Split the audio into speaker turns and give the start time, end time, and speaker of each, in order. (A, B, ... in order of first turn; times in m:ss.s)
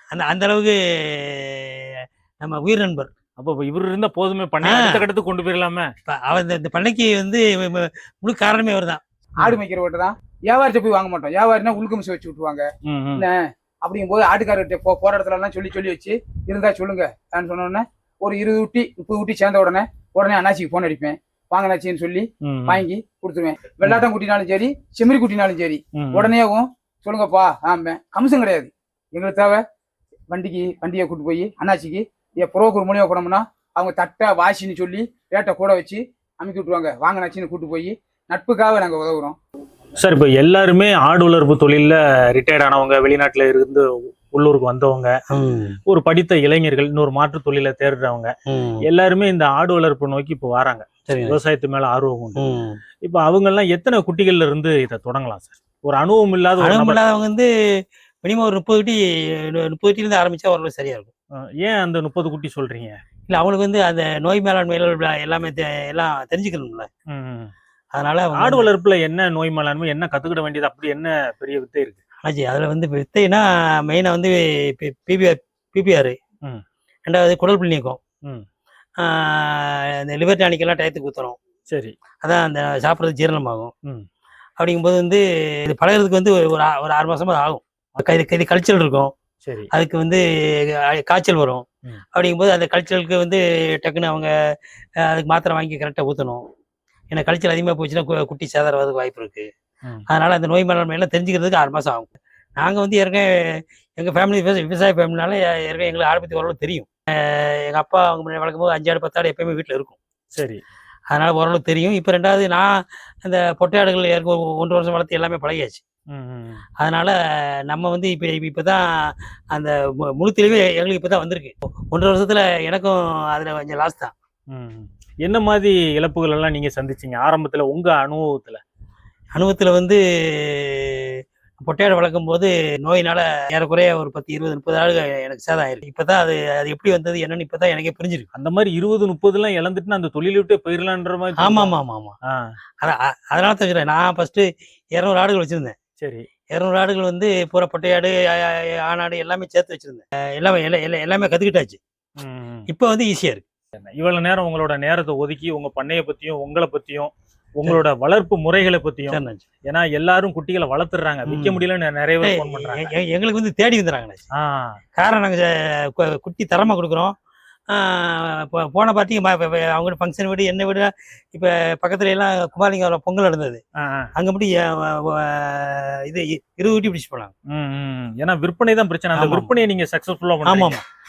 0:00.1-0:03.1 A
0:03.4-0:05.9 B
0:04.6-0:05.1 A
0:06.1-0:09.6 A
0:09.4-0:29.6 C
0:12.8-0:13.3 B
0:22.4-0:22.9 B
0:26.0-0:26.4 B
0:30.3-0:39.4 C
0:40.0-0:45.2 B
0:45.3-0:45.8 A
0:45.9-0:48.3 B
0:48.5-0:48.8 A
0:48.9-0:52.4 B
0:51.1-0:51.4 A
0:52.4-0:52.8 A
0:53.0-0:57.0 B
0:56.6-0:57.5 A
0:58.2-1:01.1 A
1:01.4-1:03.0 B
1:03.3-1:06.9 A
1:07.1-1:07.5 B
1:07.9-1:08.7 A
1:08.3-1:12.0 B
1:12.2-1:16.2 A
1:17.1-1:18.0 A
1:19.0-1:21.4 A
1:21.7-1:22.0 B
1:22.2-1:23.7 A
1:24.6-1:29.1 A
1:29.4-1:29.7 B
1:29.7-1:34.3 A
1:35.0-1:36.4 A
1:37.1-1:39.5 A
1:40.1-1:50.0 A
1:50.3-1:50.6 B
1:51.1-1:55.8 A
1:56.1-1:56.6 B
1:56.8-1:57.2 A
1:57.7-2:04.1 A
2:04.5-2:08.6 B
2:09.4-2:18.3 A
2:18.3-2:21.7 B
2:21.4-2:22.2 A
2:22.2-2:22.5 B
2:22.8-2:25.8 A
2:26.0-2:26.3 B
2:26.5-2:31.8 A
2:32.2-2:32.7 B
2:32.7-2:33.4 A
2:33.8-2:42.9 B
2:39.1-2:39.4 A
2:41.3-2:41.6 A
2:42.2-2:44.2 A
2:44.4-2:44.8 B
2:45.0-2:47.1 A
2:47.7-2:53.6 A
2:53.8-2:54.1 B
2:54.2-2:57.3 A
2:57.5-3:00.8 B
2:59.2-2:59.5 A
3:00.5-3:00.8 A